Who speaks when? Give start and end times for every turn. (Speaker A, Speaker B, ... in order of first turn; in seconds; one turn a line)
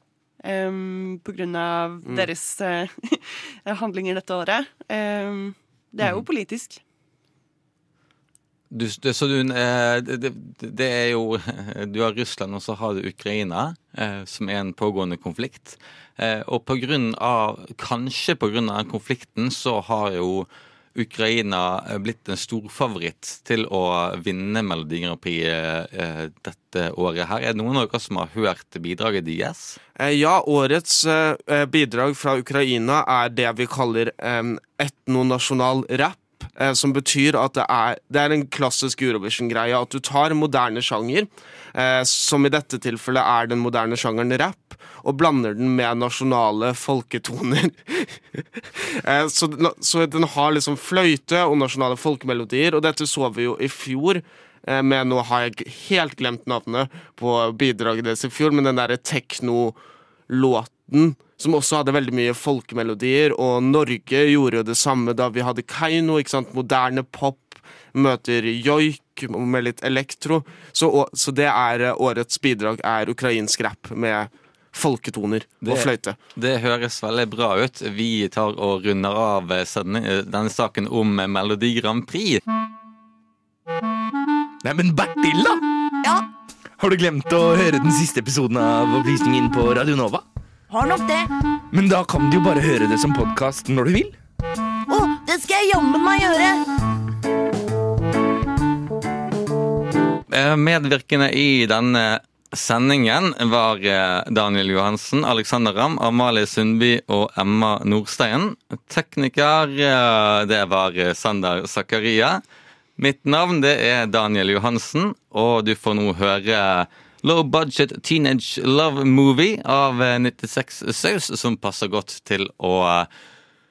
Speaker A: 0.4-6.8
Speaker B: 8.7-29.8
Speaker C: 30.0-59.8
Speaker C: 60.3-76.2
Speaker B: 75.6-82.4
Speaker D: 84.6-85.6
Speaker D: 86.8-90.2
Speaker E: 90.7-91.2
Speaker D: 91.7-94.2
Speaker E: 94.9-96.6
Speaker B: 100.3-112.4
Speaker B: 113.0-123.1